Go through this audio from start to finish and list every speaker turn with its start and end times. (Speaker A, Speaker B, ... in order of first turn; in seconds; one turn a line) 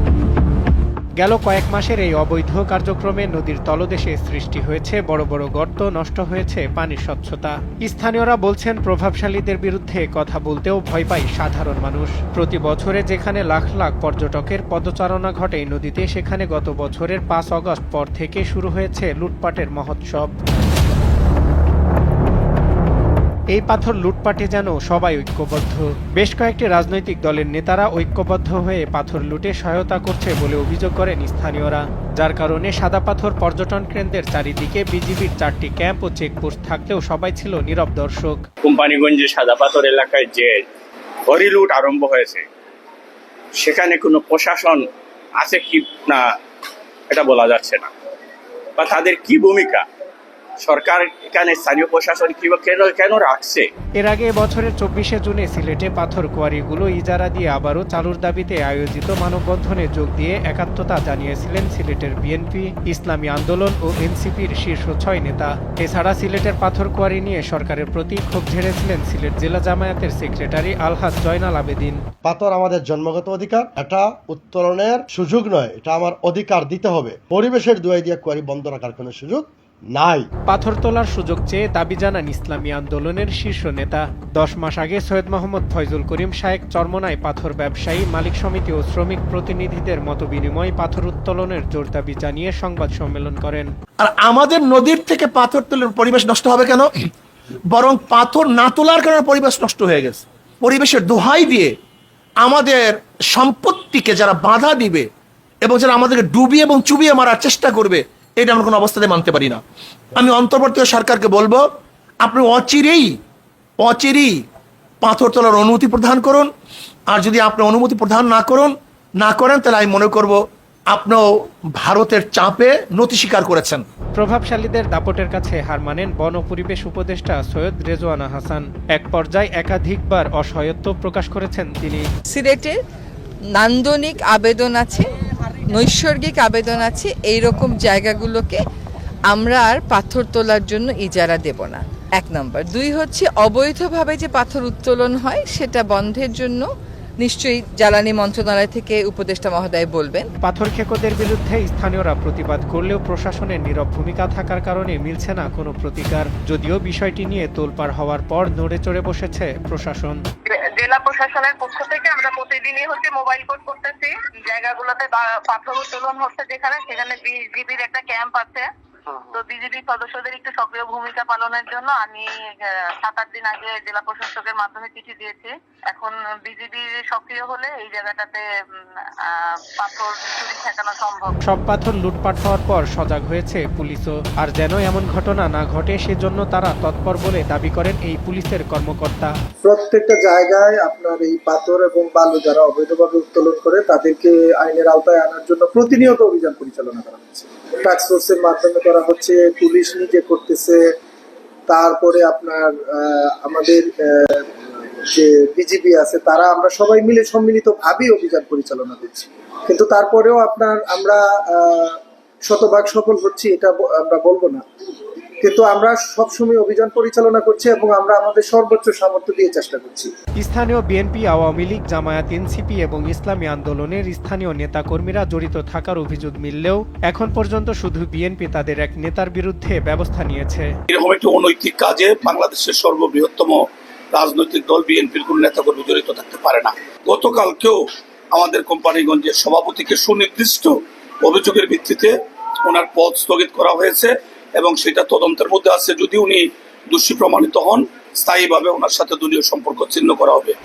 Speaker A: 1.2-20.3
Speaker A: 23.5-38.4
Speaker B: 38.6-40.6
Speaker B: 41.2-42.4
Speaker B: 43.6-44.8
Speaker B: 45.4-46.3
Speaker B: 47.1-47.9
Speaker B: 48.8-49.9
Speaker B: 50.6-53.7
Speaker A: 54.0-72.0
Speaker C: 72.2-80.3
Speaker A: 80.5-93.7
Speaker D: 94.0-97.1
Speaker D: 97.7-101.8
Speaker D: 102.4-105.1
Speaker D: 105.6-109.6
Speaker D: 110.2-111.6
Speaker D: 112.2-113.1
Speaker D: 113.8-114.4
Speaker D: 115.0-116.5
Speaker D: 117.1-120.4
Speaker D: 120.9-121.2
Speaker D: 121.7-123.8
Speaker A: 124.2-132.1
Speaker E: 132.3-132.7
Speaker E: 133.6-135.1
Speaker E: 135.7-138.6
Speaker E: 139.3-146.7
Speaker E: 147.2-150.2
Speaker A: 150.4-160.2
Speaker F: 160.5-168.7
Speaker F: 169.3-172.3
Speaker F: 173.0-178.4
Speaker F: 179.2-181.3
Speaker A: 181.4-189.3
Speaker G: 189.6-200.8
Speaker G: 201.7-204.4
Speaker G: 205.1-214.6
Speaker G: 215.4-220.1
Speaker A: 220.4-230.7
Speaker H: 230.9-250.6